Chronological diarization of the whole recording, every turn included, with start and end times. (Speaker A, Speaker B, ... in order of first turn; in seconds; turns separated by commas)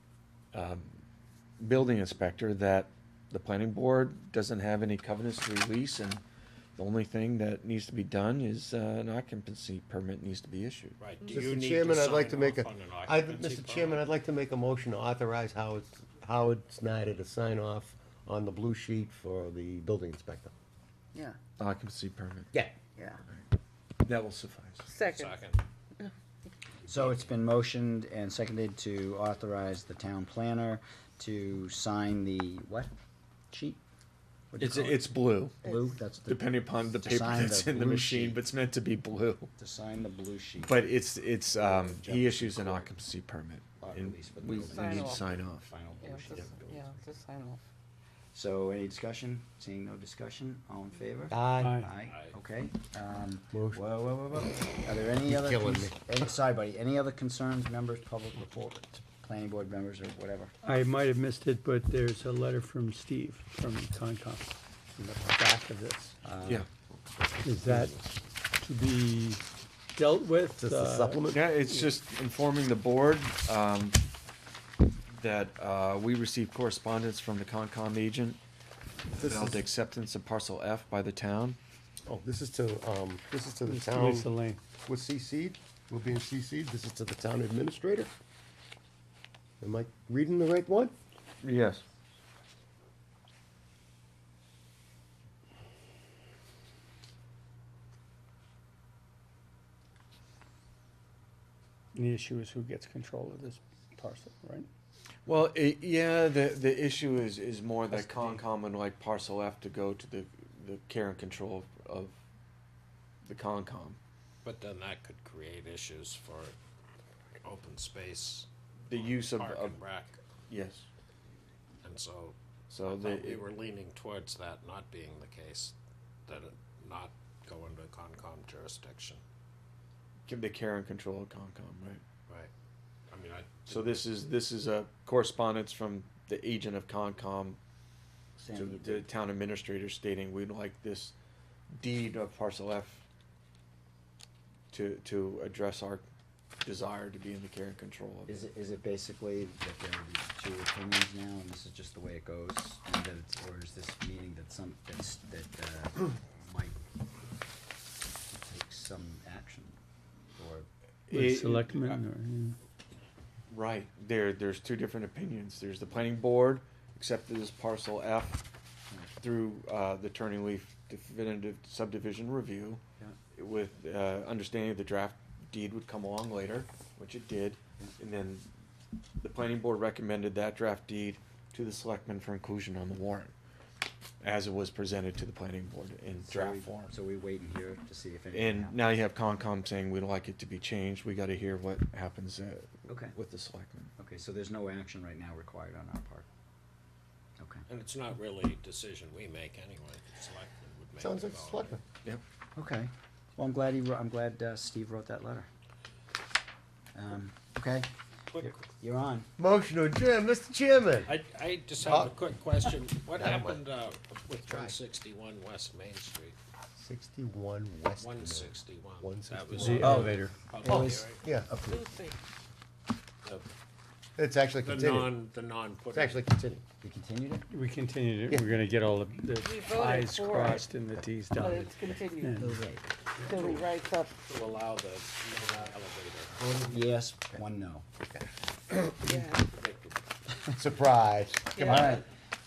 Speaker A: 0.5-1.0, Speaker A: 1.6-6.2, Speaker A: 6.8-11.0, Speaker B: 11.0-14.1, Speaker C: 11.3-20.5, Speaker A: 21.6-22.5, Speaker C: 22.5-22.8, Speaker D: 22.9-23.2, Speaker A: 24.0-24.9, Speaker D: 24.9-25.4, Speaker B: 25.1-25.6, Speaker E: 26.9-32.9, Speaker E: 33.5-33.8, Speaker E: 34.5-38.4, Speaker A: 34.6-35.6, Speaker A: 36.2-39.5, Speaker E: 39.6-40.9, Speaker A: 40.6-45.7, Speaker E: 41.5-42.9, Speaker E: 43.8-46.9, Speaker D: 44.6-45.2, Speaker D: 46.0-47.6, Speaker E: 48.3-60.5, Speaker C: 51.3-51.8, Speaker F: 51.6-51.9, Speaker B: 52.0-52.3, Speaker C: 53.5-53.8, Speaker C: 55.2-56.0, Speaker F: 60.6-66.2, Speaker E: 66.2-66.6, Speaker F: 67.4-68.0, Speaker F: 68.6-69.4, Speaker F: 69.9-71.7, Speaker C: 70.5-71.4, Speaker A: 71.3-74.0, Speaker A: 75.1-78.4, Speaker C: 79.1-79.6, Speaker A: 79.1-81.6, Speaker C: 82.0-88.1, Speaker F: 83.6-84.6, Speaker C: 89.6-90.9, Speaker A: 91.4-91.8, Speaker F: 101.9-104.7, Speaker A: 105.2-112.2, Speaker A: 113.2-114.0, Speaker B: 114.4-116.5, Speaker B: 117.4-120.2, Speaker A: 118.9-119.8, Speaker A: 120.5-120.8, Speaker B: 121.8-125.7, Speaker A: 122.7-123.5, Speaker B: 126.3-129.2, Speaker A: 130.3-132.0, Speaker B: 133.1-134.1, Speaker A: 133.7-137.6, Speaker E: 138.4-139.1, Speaker A: 138.5-141.1, Speaker A: 141.7-143.0, Speaker A: 144.7-146.1, Speaker A: 146.6-148.4, Speaker E: 148.3-156.8, Speaker E: 158.3-159.8, Speaker E: 160.3-160.7, Speaker A: 161.1-162.0, Speaker F: 161.1-162.6, Speaker A: 163.5-168.4, Speaker A: 169.2-172.8, Speaker A: 173.3-178.4, Speaker A: 179.2-183.3, Speaker A: 184.2-186.9, Speaker E: 186.1-188.8, Speaker A: 188.3-193.9, Speaker E: 192.9-193.2, Speaker E: 194.0-196.2, Speaker E: 197.4-197.7, Speaker B: 197.7-201.8, Speaker C: 201.0-201.8, Speaker E: 202.6-205.5, Speaker E: 206.9-207.9, Speaker B: 208.3-208.6, Speaker E: 208.4-209.3, Speaker C: 209.4-211.2, Speaker B: 211.1-216.4, Speaker C: 211.8-212.2, Speaker C: 213.1-213.6, Speaker C: 214.4-214.8, Speaker C: 216.8-220.1, Speaker B: 218.0-221.2, Speaker F: 219.6-220.4, Speaker A: 219.8-220.1, Speaker E: 219.8-221.8, Speaker C: 220.6-221.6, Speaker D: 221.6-222.2, Speaker B: 223.2-223.5, Speaker C: 224.2-225.2, Speaker B: 224.6-226.2, Speaker C: 225.9-226.6, Speaker E: 226.8-227.5, Speaker F: 227.5-232.7, Speaker D: 229.4-230.7, Speaker D: 231.3-232.4, Speaker E: 232.4-232.9, Speaker D: 233.2-234.1, Speaker B: 233.3-233.6, Speaker B: 234.2-236.3, Speaker C: 236.4-236.8, Speaker E: 236.5-237.8, Speaker C: 238.1-239.1, Speaker D: 239.1-239.5, Speaker B: 239.5-240.0, Speaker C: 240.5-241.9, Speaker D: 241.5-241.9, Speaker E: 241.6-242.0